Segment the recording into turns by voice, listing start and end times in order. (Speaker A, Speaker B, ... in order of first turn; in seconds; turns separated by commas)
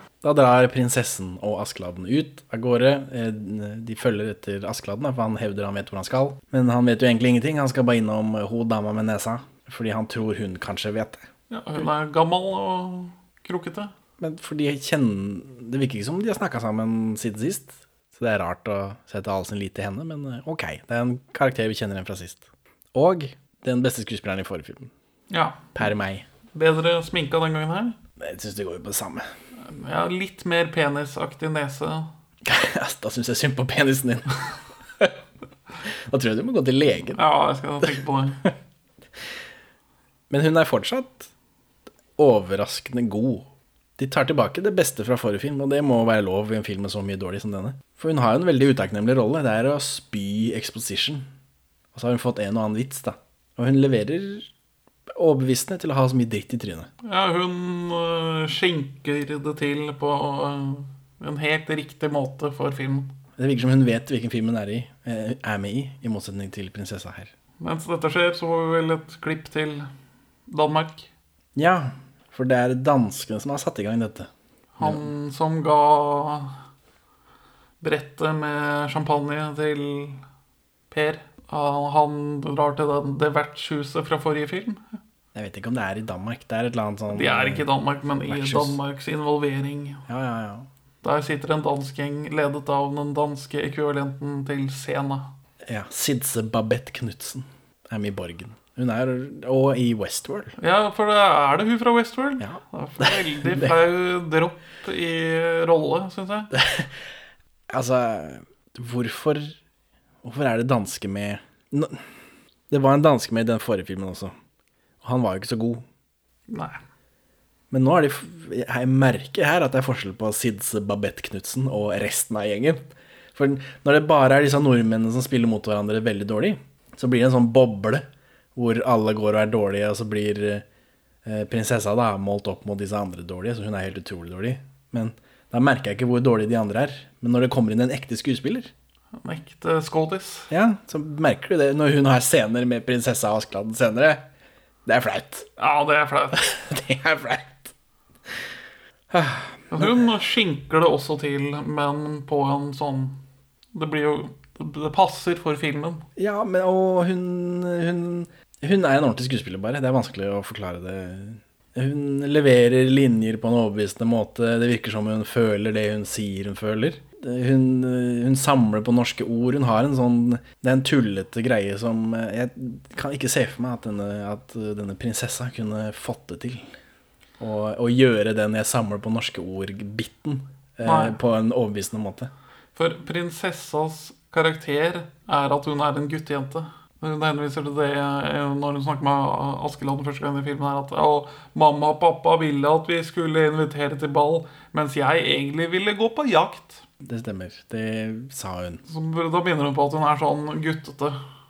Speaker A: 0.2-11.3, Speaker B: 11.5-13.9, Speaker A: 14.2-24.9, Speaker B: 25.3-25.8, Speaker A: 25.7-26.2, Speaker B: 26.5-28.0, Speaker A: 28.2-29.3, Speaker B: 29.6-32.1, Speaker A: 32.4-34.4, Speaker A: 36.1-37.2, Speaker B: 37.1-38.4, Speaker A: 40.3-41.3, Speaker A: 42.2-43.5, Speaker A: 44.0-51.3, Speaker A: 51.9-54.5, Speaker A: 55.1-56.9, Speaker B: 57.0-63.1, Speaker A: 63.4-67.3, Speaker B: 67.6-69.9, Speaker B: 70.5-71.1, Speaker A: 71.5-74.3, Speaker B: 74.8-76.5, Speaker B: 77.8-80.2, Speaker B: 80.9-85.0, Speaker A: 85.3-87.6, Speaker B: 87.1-90.0, Speaker A: 88.3-88.8, Speaker A: 90.1-90.7, Speaker B: 91.0-95.3, Speaker A: 95.7-100.5, Speaker B: 100.6-106.5, Speaker A: 102.4-103.7, Speaker A: 106.5-106.9, Speaker A: 107.7-109.5, Speaker A: 110.2-112.0, Speaker A: 112.7-114.3, Speaker A: 115.0-115.8, Speaker B: 116.5-116.8, Speaker A: 117.7-122.8, Speaker A: 123.3-130.6, Speaker A: 131.2-138.7, Speaker B: 139.2-140.5, Speaker A: 140.5-144.2, Speaker A: 144.8-145.5, Speaker B: 145.6-146.4, Speaker A: 146.4-147.7, Speaker A: 149.1-150.0, Speaker B: 149.7-153.2, Speaker B: 153.7-156.0, Speaker A: 156.2-176.7, Speaker A: 177.4-182.3, Speaker B: 180.8-181.2, Speaker B: 182.8-196.8, Speaker A: 197.0-198.8, Speaker B: 198.9-201.2